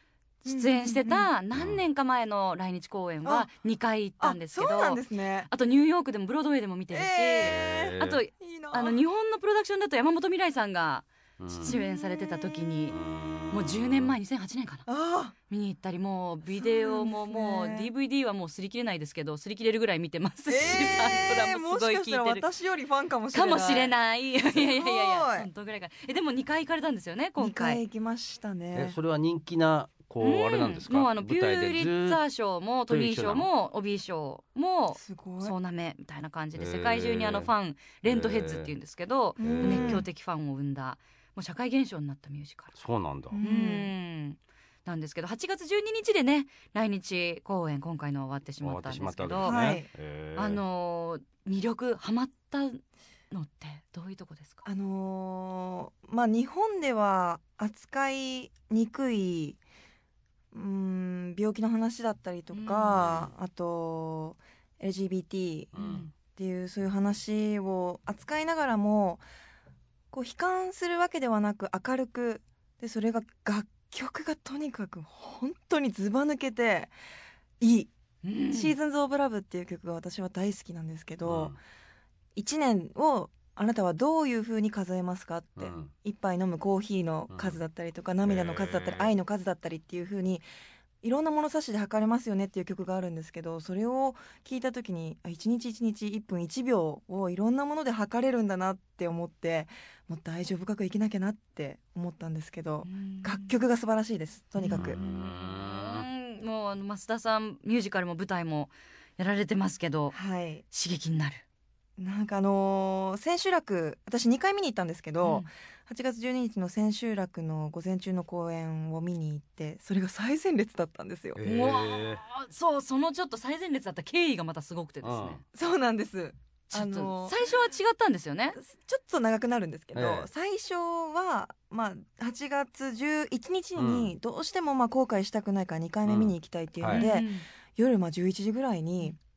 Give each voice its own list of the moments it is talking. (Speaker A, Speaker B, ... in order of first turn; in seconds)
Speaker A: 0.4-13.0, 13.5-14.8, 15.5-22.4, 23.3-27.8, 30.2-42.8, 43.4-49.5, 50.4-54.6, 62.5-63.1, 65.8-66.1, 78.2-78.7, 102.8-103.5, 104.6-110.2, 110.7-111.4, 115.2-115.5, 121.4-125.4, 126.7-128.6, 136.9-137.5
Speaker B: 0.5-1.3, 4.2-5.5, 6.9-9.0, 11.7-12.0, 14.9-15.3, 16.5-17.9, 20.5-23.9, 24.4-25.5, 27.4-28.9, 34.9-35.5, 39.4-40.0, 43.3-43.9, 49.4-49.9, 54.6-59.6, 60.5-69.2, 70.1-76.9, 77.6-77.9, 78.5-81.5, 82.3-90.4, 91.0-105.0, 110.1-110.6, 112.0-121.4, 125.5-127.4, 128.6-139.2
Speaker C: 1.5-1.8, 7.4-8.2, 11.4-11.8, 12.9-14.1, 20.6-21.3, 28.7-32.2, 32.9-33.5, 36.5-37.5, 38.0-38.7, 39.4-40.0, 42.8-43.4, 48.6-50.6, 62.9-63.3, 65.7-66.1, 81.2-81.6, 85.6-85.9, 87.3-87.6, 88.2-89.1, 104.7-106.0, 121.4-122.2, 125.0-125.4, 129.9-130.3, 133.8-134.1, 136.0-137.1